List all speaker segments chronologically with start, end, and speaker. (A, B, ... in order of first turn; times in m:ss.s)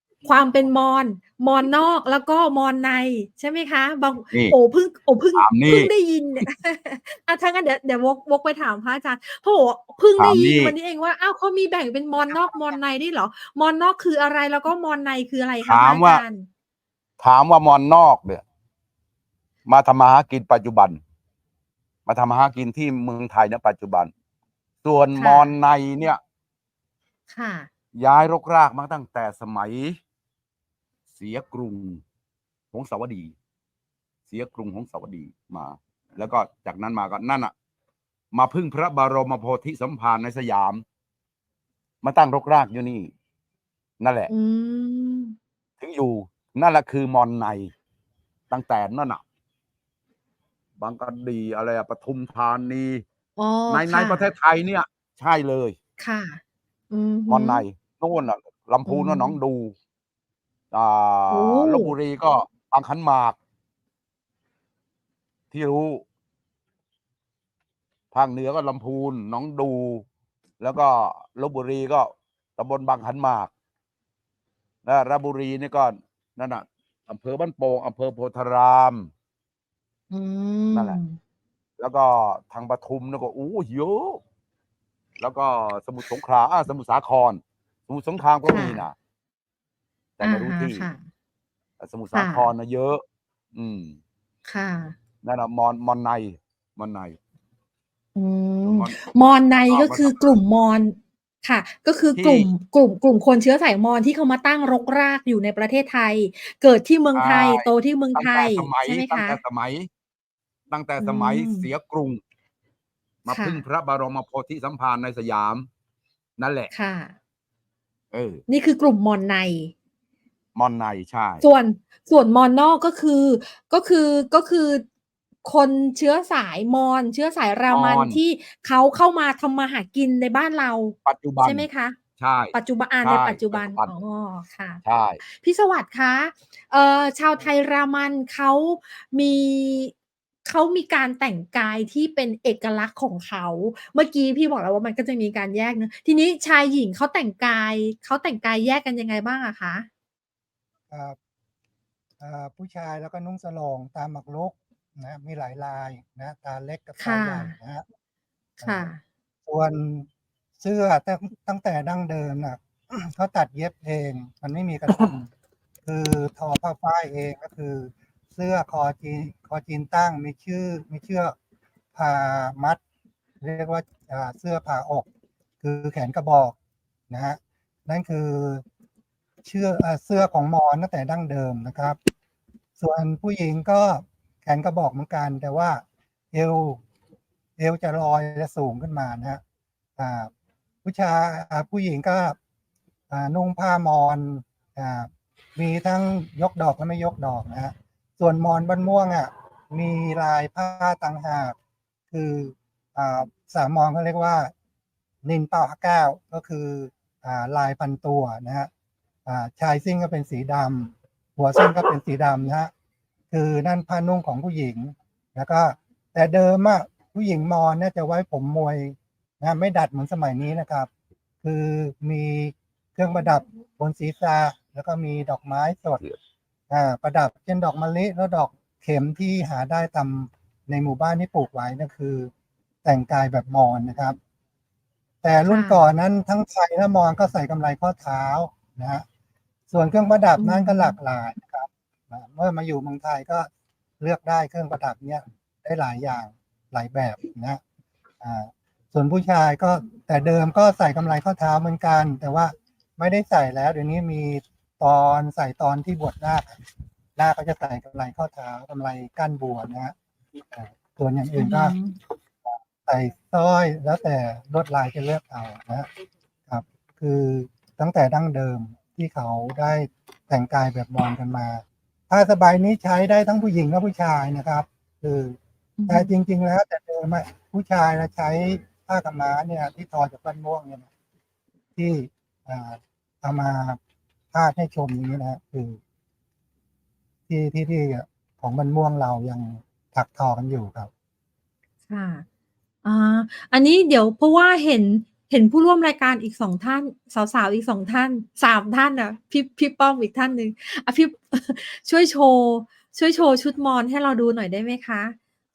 0:00.2-0:16.5 A
0:05.4-0:05.9 B
0:10.2-0:10.8 B
0:15.6-0:16.2 B
0:17.2-0:18.4 B
0:19.7-0:21.0 B
0:22.1-0:24.1 B
0:24.8-0:26.2 B
0:25.2-0:25.5 A
0:27.3-0:27.7 A
0:28.0-0:30.0 B
0:31.2-0:32.0 B
0:32.7-0:33.3 B
0:34.3-0:37.5 B
0:38.3-0:40.8 B
0:42.0-0:43.1 B
0:44.0-0:44.3 B
0:44.3-0:45.3 A
0:45.8-0:47.7 B
0:48.5-0:49.2 B
0:50.8-0:53.0 B
0:53.4-0:54.3 A
0:53.7-0:55.8 B
0:56.0-0:57.6 A
0:57.3-0:59.7 B
0:58.8-0:59.4 A
1:00.7-1:03.4 B
1:01.3-1:01.9 A
1:05.5-1:06.0 B
1:08.1-1:10.0 B
1:10.6-1:13.5 B
1:14.8-1:19.1 B
1:20.1-1:21.2 A
1:20.7-1:21.0 B
1:21.8-1:24.2 B
1:25.2-1:28.9 B
1:28.5-1:28.8 A
1:30.2-1:30.9 B
1:30.2-1:31.0 A
1:31.8-1:33.0 B
1:32.1-1:32.5 A
1:33.5-1:34.0 B
1:34.5-1:35.0 A
1:35.2-1:37.2 B
1:38.2-1:49.4 A
1:38.6-1:40.4 B
1:42.2-1:42.5 B
1:47.1-1:49.9 B
1:50.7-1:52.2 B
1:51.0-1:51.7 A
1:53.2-1:55.7 B
1:53.3-1:53.6 A
1:56.4-1:56.7 B
1:56.7-1:57.1 A
1:58.1-1:58.4 B
1:58.5-1:59.7 A
2:00.6-2:01.4 B
2:01.4-2:04.8 A
2:05.4-2:12.0 A
2:07.7-2:08.2 B
2:11.0-2:11.7 B
2:12.2-2:13.9 B
2:12.5-2:19.9 A
2:14.8-2:15.2 B
2:20.4-2:29.9 A
2:30.9-2:31.2 C
2:32.2-2:37.8 C
2:37.0-2:37.6 A
2:38.6-2:39.0 A
2:39.4-2:40.1 C
2:40.6-2:45.3 C
2:45.8-2:51.4 C
2:51.9-2:52.8 C
2:53.4-2:55.1 C
2:55.6-2:56.6 C
2:57.1-2:58.6 C
2:59.4-3:02.0 C
3:02.8-3:06.8 C
3:07.6-3:09.4 C
3:10.0-3:10.3 C
3:10.8-3:12.4 C
3:13.1-3:21.6 C
3:22.1-3:24.5 C
3:25.2-3:28.7 C
3:29.2-3:32.7 C
3:33.3-3:40.9 C
3:41.4-3:46.0 C
3:46.7-3:52.3 C
3:52.8-3:54.2 C
3:55.2-3:59.0 C
3:55.5-3:55.8 A
3:59.7-4:03.5 C
4:00.4-4:01.0 A
4:04.0-4:07.6 C
4:08.2-4:16.6 C
4:17.2-4:19.9 C
4:20.5-4:21.8 C
4:21.4-4:22.0 A
4:22.5-4:25.9 C
4:26.5-4:40.9 C
4:35.8-4:36.1 A
4:41.8-4:43.8 C
4:44.3-4:45.8 C
4:47.3-4:50.9 C
4:51.9-4:52.2 A
4:52.8-5:05.2 A